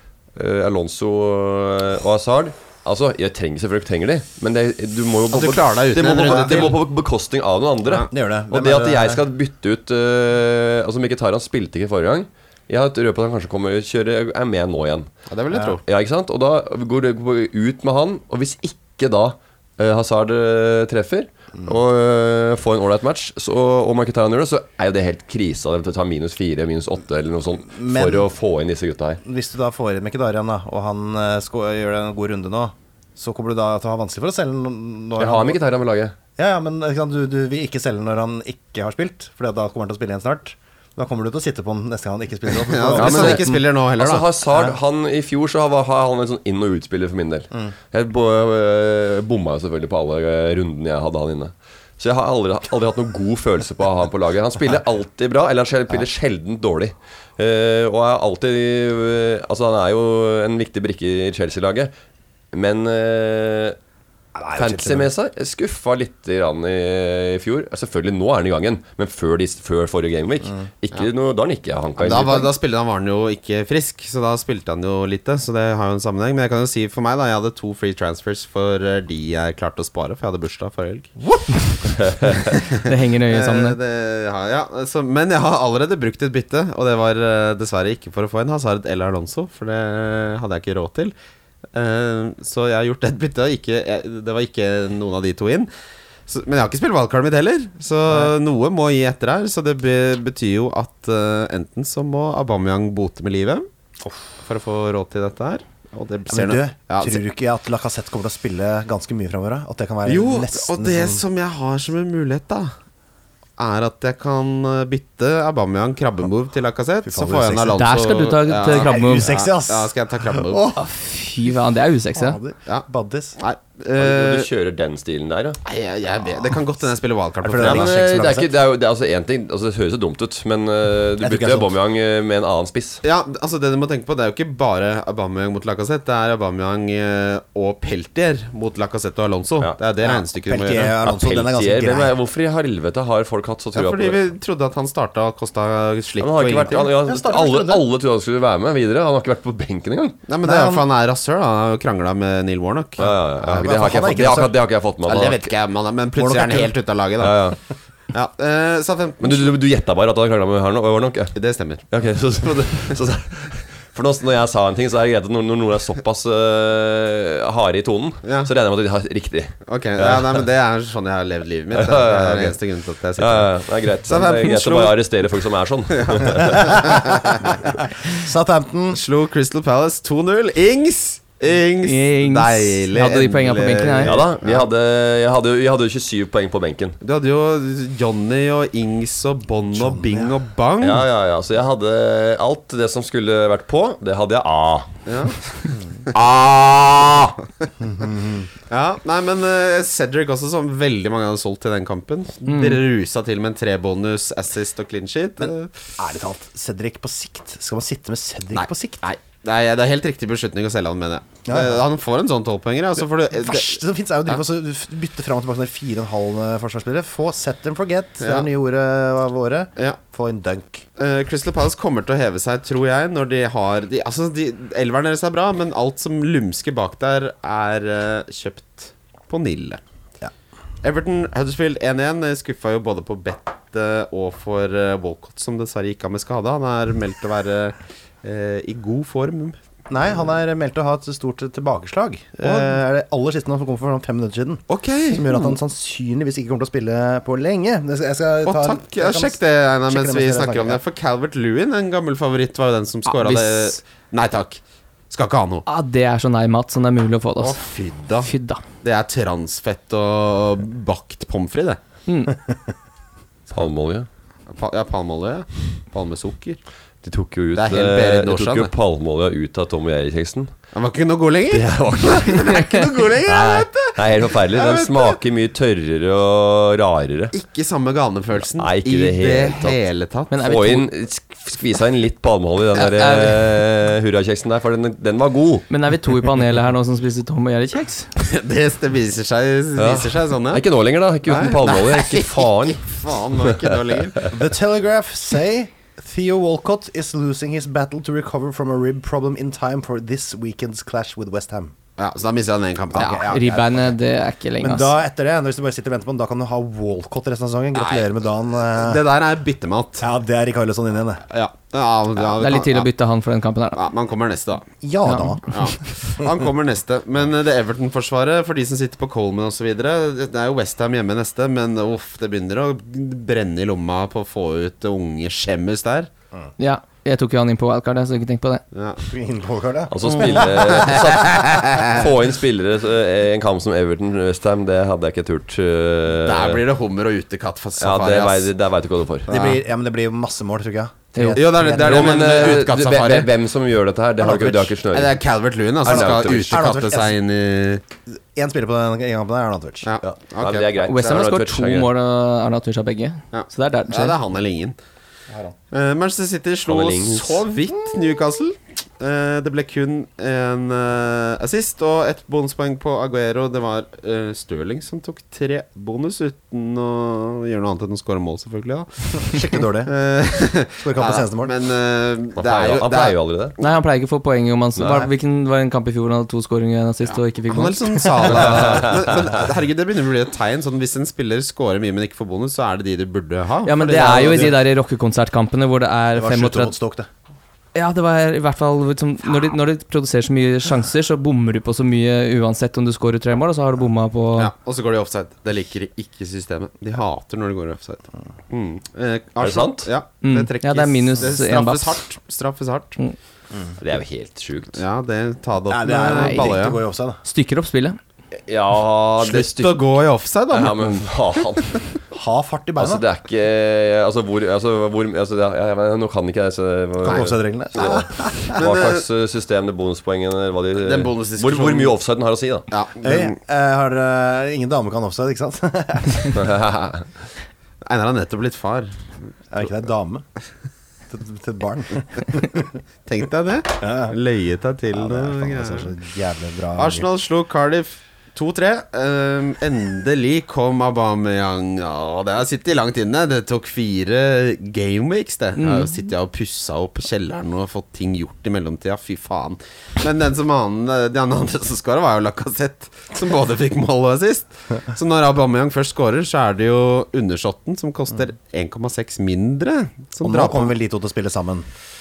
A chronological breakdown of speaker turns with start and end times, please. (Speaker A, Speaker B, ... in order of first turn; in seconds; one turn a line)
Speaker A: 0.4-15.1
Speaker B: 5.3-6.8
Speaker C: 6.2-6.8
Speaker C: 8.1-9.2
Speaker B: 15.3-15.8
Speaker C: 15.5-15.8
Speaker A: 15.8-29.2
Speaker C: 27.7-28.3
Speaker C: 29.2-35.6
Speaker A: 35.2-36.2
Speaker C: 36.4-43.6
Speaker B: 42.6-44.2
Speaker A: 42.9-61.9
Speaker C: 44.5-44.8
Speaker A: 62.5-63.8
Speaker C: 64.3-65.1
Speaker A: 64.5-72.5
Speaker B: 72.0-81.7
Speaker A: 82.1-82.5
Speaker B: 82.2-91.1
Speaker D: 82.7-83.8
Speaker B: 91.7-95.7
Speaker B: 96.3-103.7
Speaker B: 104.4-107.2
Speaker C: 106.3-111.2
Speaker B: 110.0-112.7
Speaker B: 113.6-120.7
Speaker C: 117.0-117.8
Speaker D: 117.8-119.3
Speaker C: 118.6-120.9
Speaker D: 120.8-122.4
Speaker C: 122.1-123.4
Speaker B: 123.4-124.5
Speaker A: 124.0-125.6
Speaker B: 125.7-128.0
Speaker C: 127.4-128.5
Speaker A: 127.6-133.0
Speaker C: 131.2-131.7
Speaker B: 133.0-140.9
Speaker C: 140.0-142.1
Speaker A: 141.0-144.2
Speaker B: 143.8-146.9
Speaker A: 146.2-150.2
Speaker C: 146.7-147.9
Speaker B: 150.3-153.1
Speaker C: 150.4-150.9
Speaker A: 153.0-155.5
Speaker C: 153.4-154.6
Speaker B: 155.1-157.4
Speaker C: 156.2-156.7
Speaker A: 157.2-157.6
Speaker B: 158.1-159.5
Speaker A: 159.2-161.4
Speaker B: 161.3-161.8
Speaker A: 161.9-170.4
Speaker B: 168.2-168.5
Speaker B: 169.7-173.5
Speaker A: 171.7-172.6
Speaker A: 173.2-177.0
Speaker B: 174.1-175.0
Speaker B: 176.0-177.6
Speaker C: 176.6-177.0
Speaker C: 178.1-179.0
Speaker B: 178.9-184.7
Speaker D: 181.8-184.2
Speaker A: 184.0-187.0
Speaker B: 187.0-191.0
Speaker C: 189.7-190.3
Speaker A: 190.8-194.9
Speaker B: 195.1-195.4
Speaker B: 196.1-197.7
Speaker C: 197.8-198.5
Speaker B: 198.7-205.8
Speaker D: 202.5-202.8
Speaker C: 206.0-209.0
Speaker B: 208.5-213.8
Speaker C: 211.5-211.8
Speaker C: 213.3-220.9
Speaker B: 218.2-218.5
Speaker B: 221.0-229.8
Speaker B: 230.8-239.6
Speaker C: 239.9-250.8
Speaker B: 242.4-242.7
Speaker B: 244.7-245.4
Speaker B: 248.4-255.7
Speaker D: 253.1-253.8
Speaker D: 255.7-257.6
Speaker B: 257.4-258.3
Speaker D: 258.2-258.6
Speaker B: 258.8-261.8
Speaker D: 262.1-262.4
Speaker A: 263.5-264.1
Speaker B: 264.5-266.6
Speaker A: 267.0-270.5
Speaker B: 267.5-268.7
Speaker B: 270.7-275.2
Speaker A: 271.5-277.4
Speaker B: 277.3-280.3
Speaker A: 278.5-279.8
Speaker D: 280.3-280.9
Speaker A: 280.3-285.7
Speaker D: 282.9-283.4
Speaker D: 285.7-288.1
Speaker B: 288.2-290.6
Speaker A: 289.8-293.8
Speaker B: 291.2-294.3
Speaker C: 294.3-301.7
Speaker B: 302.0-303.4
Speaker C: 302.9-303.9
Speaker D: 303.0-304.9
Speaker C: 304.6-309.0
Speaker B: 307.8-308.1
Speaker B: 308.7-310.0
Speaker C: 310.0-311.2
Speaker B: 311.3-312.9
Speaker D: 312.4-313.8
Speaker B: 313.8-314.7
Speaker C: 314.8-316.2
Speaker D: 315.0-315.4
Speaker B: 315.5-326.1
Speaker D: 326.6-328.6
Speaker B: 328.7-329.0
Speaker C: 329.1-330.8
Speaker A: 329.9-336.6
Speaker B: 330.7-332.0
Speaker B: 336.2-338.5
Speaker A: 337.8-339.3
Speaker C: 339.3-342.6
Speaker B: 339.3-339.6
Speaker D: 341.1-341.4
Speaker B: 341.3-343.3
Speaker A: 341.7-345.2
Speaker B: 344.2-347.8
Speaker A: 345.8-346.6
Speaker C: 345.8-347.2
Speaker C: 348.3-349.9
Speaker B: 349.8-351.2
Speaker A: 350.0-351.9
Speaker D: 350.8-354.2
Speaker B: 353.3-354.8
Speaker C: 355.3-355.5
Speaker B: 355.7-373.8
Speaker A: 356.7-357.4
Speaker C: 369.2-369.9
Speaker C: 370.8-371.5
Speaker A: 372.4-373.5
Speaker D: 373.6-378.4
Speaker A: 374.8-375.1
Speaker B: 377.1-384.5
Speaker A: 378.3-379.1
Speaker D: 383.6-386.8
Speaker C: 383.8-384.6
Speaker C: 386.1-387.1
Speaker D: 387.8-394.5
Speaker B: 394.4-403.0
Speaker A: 399.4-399.9
Speaker D: 400.2-402.0
Speaker A: 403.8-404.8
Speaker B: 404.8-406.8
Speaker C: 405.7-407.2
Speaker D: 406.1-406.6
Speaker D: 407.2-408.0
Speaker A: 408.5-409.9
Speaker B: 409.2-411.1
Speaker A: 410.5-411.8
Speaker C: 412.1-413.0
Speaker A: 412.8-422.7
Speaker B: 417.0-417.3
Speaker C: 417.0-418.6
Speaker B: 418.6-419.0
Speaker B: 420.8-421.9
Speaker B: 422.7-423.3
Speaker C: 423.0-426.5
Speaker A: 426.3-427.1
Speaker B: 427.9-429.0
Speaker C: 429.5-430.2
Speaker C: 431.1-432.8
Speaker B: 433.1-435.9
Speaker C: 433.8-434.2
Speaker C: 434.9-437.1
Speaker B: 436.8-460.7
Speaker D: 445.6-446.0
Speaker C: 460.2-461.7